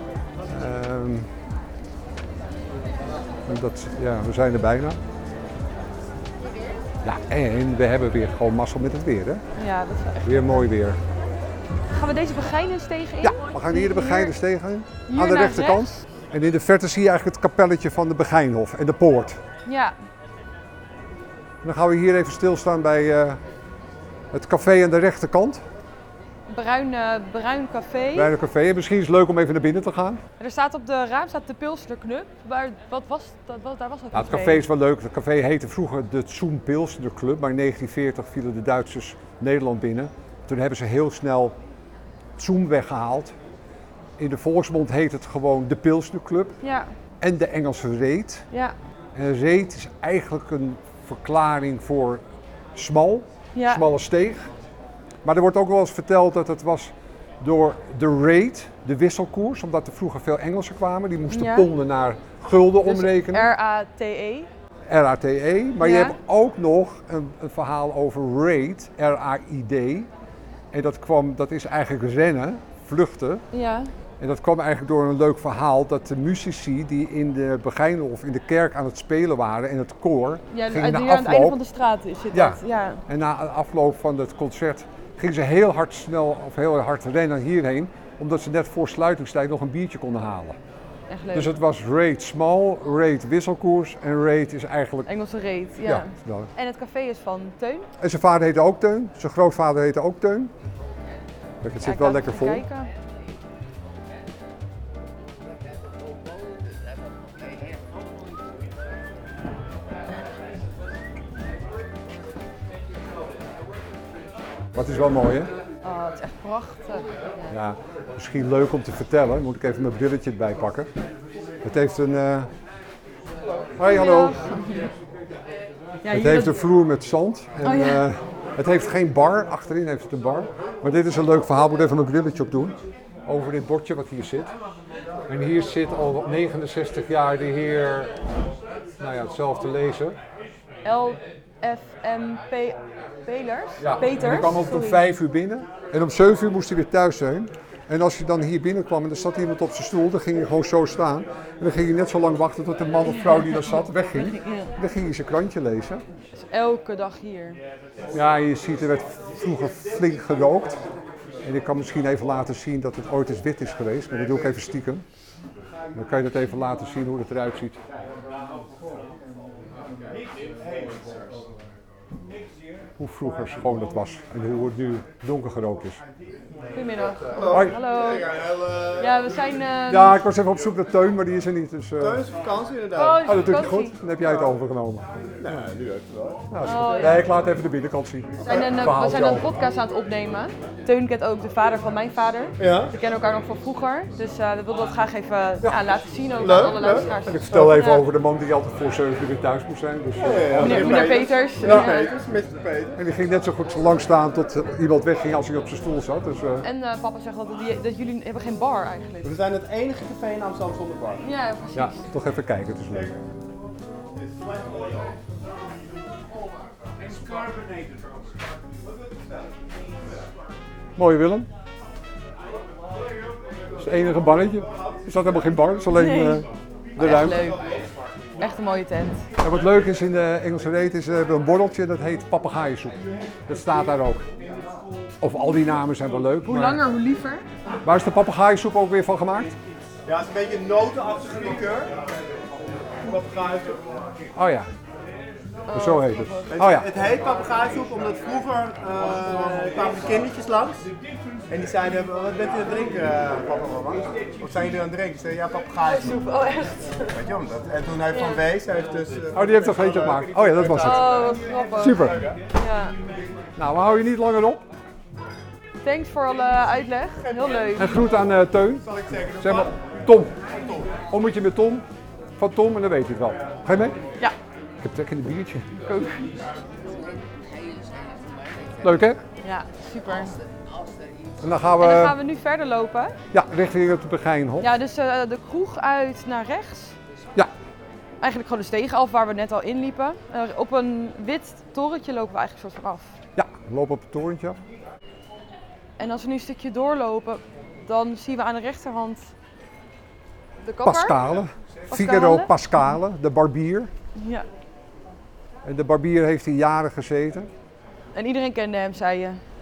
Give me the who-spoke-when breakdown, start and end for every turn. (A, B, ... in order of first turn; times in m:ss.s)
0:00.4-0:01.3 A
0:03.4-0:05.0 A
0:07.0-0:09.4 A
0:09.5-0:10.6 B
0:10.2-0:11.0 A
0:11.9-0:14.3 B
0:13.2-0:19.4 A
0:15.1-0:15.9 B
0:19.6-0:19.9 B
0:21.6-0:23.4 A
0:24.3-0:25.6 A
0:26.5-0:28.3 B
0:28.1-0:30.2 A
0:30.4-0:34.7 B
0:34.1-0:41.6 A
0:42.4-0:43.4 A
0:44.2-0:46.6 A
0:46.6-0:46.9 B
0:47.2-0:48.5 A
0:49.1-0:52.2 A
0:52.7-0:54.5 A
0:53.5-0:53.8 B
0:55.2-1:03.5 A
1:01.3-1:01.7 B
1:02.8-1:04.5 B
1:04.9-1:10.1 A
1:05.8-1:06.2 B
1:10.7-1:13.4 A
1:13.5-1:13.9 B
1:14.2-1:21.6 A
1:20.5-1:23.0 B
1:22.3-1:30.6 A
1:31.1-1:31.5 B
1:31.3-1:35.1 A
1:35.0-1:37.9 B
1:35.8-1:36.5 A
1:38.0-1:40.5 A
1:41.6-1:42.6 A
1:41.8-1:42.9 B
1:54.7-1:55.5 A
1:55.8-1:57.5 B
1:57.5-2:00.9 A
2:01.6-2:02.5 A
2:03.8-2:04.4 A
2:03.8-2:04.9 B
2:06.0-2:06.6 B
2:06.1-2:14.5 A
2:07.6-2:08.0 B
2:15.3-2:18.2 A
2:19.0-2:20.2 A
2:20.8-2:25.0 B
2:23.8-2:36.0 A
2:33.0-2:34.7 B
2:36.3-2:37.6 B
2:38.1-2:40.8 A
2:41.4-2:45.0 A
2:45.9-2:47.8 A
2:53.0-2:56.0 A
2:56.7-3:00.2 B
2:57.3-2:59.0 C
2:57.4-2:57.8 A
2:59.9-3:02.2 A
3:02.0-3:03.3 C
3:02.9-3:03.9 B
3:03.2-3:05.1 A
3:05.4-3:06.5 C
3:06.5-3:09.6 A
3:06.6-3:07.3 B
3:08.4-3:18.0 B
3:08.4-3:08.7 C
3:12.6-3:12.9 C
3:16.4-3:17.6 C
3:17.2-3:21.0 A
3:20.1-3:23.0 C
3:20.6-3:22.1 B
3:21.6-3:22.0 A
3:23.0-3:26.6 A
3:26.6-3:29.3 B
3:29.2-3:31.3 C
3:31.2-3:32.1 B
3:31.7-3:33.2 A
3:41.0-3:41.5 A
3:43.8-3:47.5 A
3:45.9-3:46.4 B
3:47.0-3:47.6 B
3:48.4-3:49.2 B
3:49.4-3:54.3 A
3:55.2-3:56.8 A
3:56.4-3:57.4 B
3:57.8-3:59.6 A
4:00.0-4:01.9 C
4:03.0-4:03.8 C
4:04.3-4:04.7 A
4:05.7-4:06.5 B
4:05.7-4:06.9 A
4:06.5-4:10.8 C
4:11.5-4:16.2 C
4:15.8-4:17.2 B
4:17.1-4:21.4 C
4:18.1-4:18.4 B
4:19.3-4:21.1 A
4:20.8-4:22.9 B
4:21.8-4:22.3 A
4:22.1-4:22.3 C
4:23.6-4:24.6 A
4:25.8-4:28.0 B
4:27.8-4:30.4 A
4:29.1-4:29.6 C
4:31.1-4:31.8 A
4:32.4-4:34.0 A
4:34.8-4:35.7 A
4:35.8-4:36.3 B
4:38.8-4:39.2 A
4:39.4-4:40.4 B
4:41.4-4:42.2 A
4:41.8-4:43.2 B
4:43.3-4:44.7 A
4:44.6-4:47.0 B
4:48.2-4:53.2 B
4:53.4-4:54.6 A
4:56.0-4:59.3 B
5:00.6-5:01.2 B
5:00.8-5:03.9 A
5:01.9-5:02.8 B
5:04.1-5:04.5 B
5:05.6-5:07.5 A
5:08.1-5:09.4 B